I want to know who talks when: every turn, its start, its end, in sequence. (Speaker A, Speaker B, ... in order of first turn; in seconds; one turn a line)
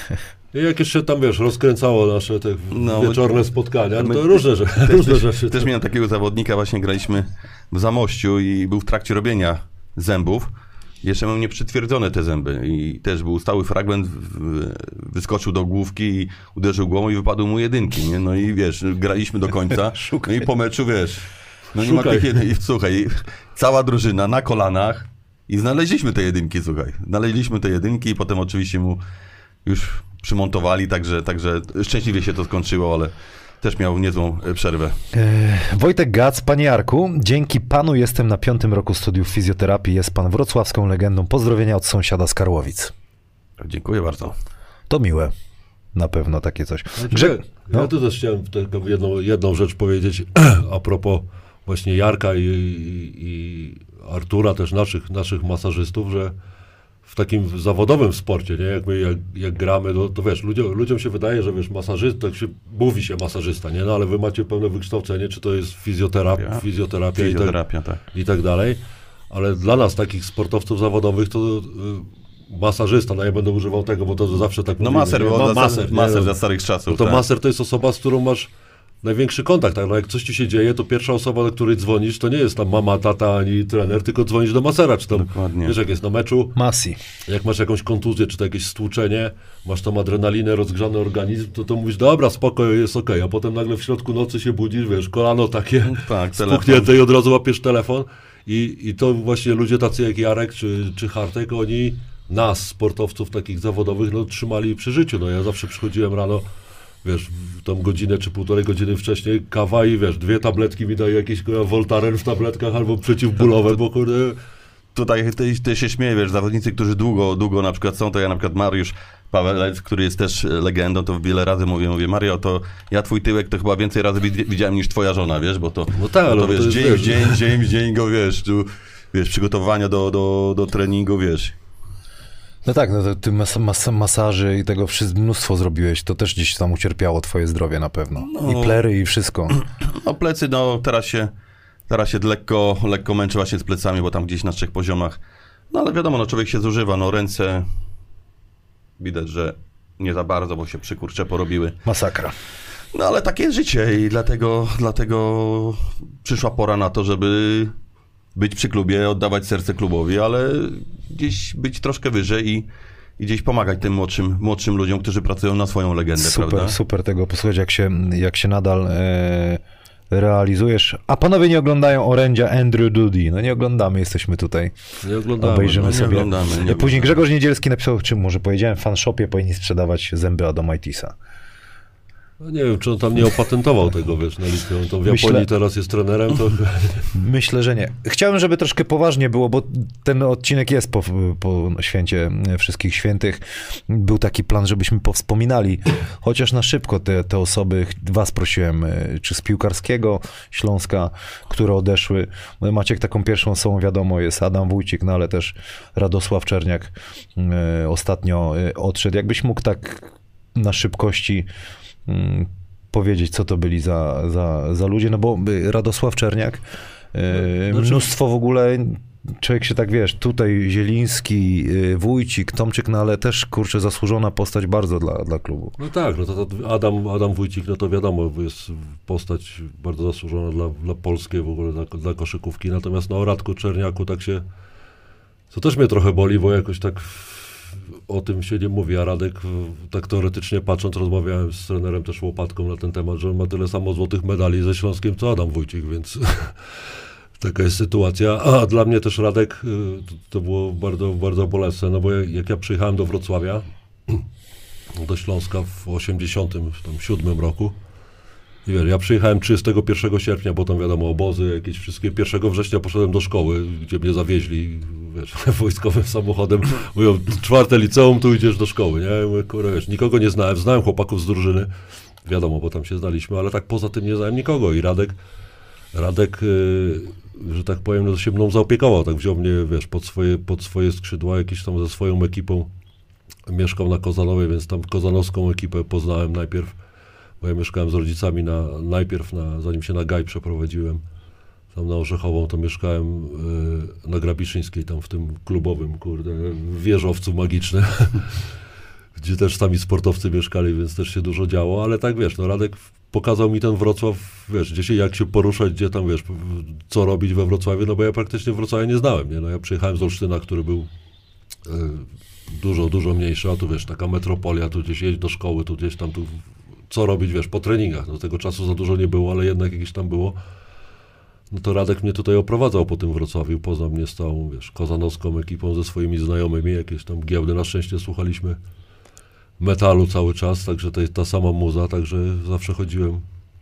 Speaker A: 0.5-5.7
Speaker B: 2.7-3.2
Speaker B: 4.0-10.5
Speaker B: 11.0-29.0
Speaker A: 21.7-22.4
Speaker B: 29.6-35.0
Speaker C: 35.1-42.9
Speaker B: 43.6-44.4
Speaker C: 44.9-45.3
Speaker C: 46.0-47.9
Speaker A: 47.0-56.4
Speaker A: 57.1-67.6
Speaker B: 67.2-68.0
Speaker A: 68.1-76.4
Speaker B: 74.8-77.2
Speaker A: 76.9-78.5
Speaker A: 79.0-86.5
Speaker B: 85.1-85.8
Speaker C: 86.6-87.0
Speaker A: 87.3-106.4
Speaker B: 95.9-96.9
Speaker A: 107.0-114.4
Speaker B: 115.0-131.6
Speaker A: 125.9-127.4
Speaker C: 132.7-139.6
Speaker B: 138.2-138.8
Speaker B: 139.6-141.3
Speaker B: 141.9-145.2
Speaker B: 145.7-147.7
Speaker B: 149.0-151.8
Speaker C: 151.9-152.3
Speaker B: 152.9-157.7
Speaker B: 158.3-162.7
Speaker B: 163.2-166.8
Speaker C: 166.2-174.7
Speaker A: 175.0-176.3
Speaker C: 175.4-181.1
Speaker B: 175.8-177.2
Speaker A: 182.4-187.1
Speaker C: 185.1-185.5
Speaker C: 187.1-211.5
Speaker C: 212.1-216.6
Speaker C: 217.1-225.8
Speaker A: 217.7-218.1
Speaker A: 225.8-234.4
Speaker A: 235.5-254.2
Speaker A: 254.9-257.8
Speaker A: 258.6-271.7
Speaker A: 272.2-275.2
Speaker A: 275.9-282.7
Speaker A: 283.5-286.8
Speaker A: 287.4-291.0
Speaker A: 291.7-298.5
Speaker A: 299.2-310.9
Speaker A: 311.6-320.4
Speaker A: 321.5-328.6
Speaker A: 329.6-333.2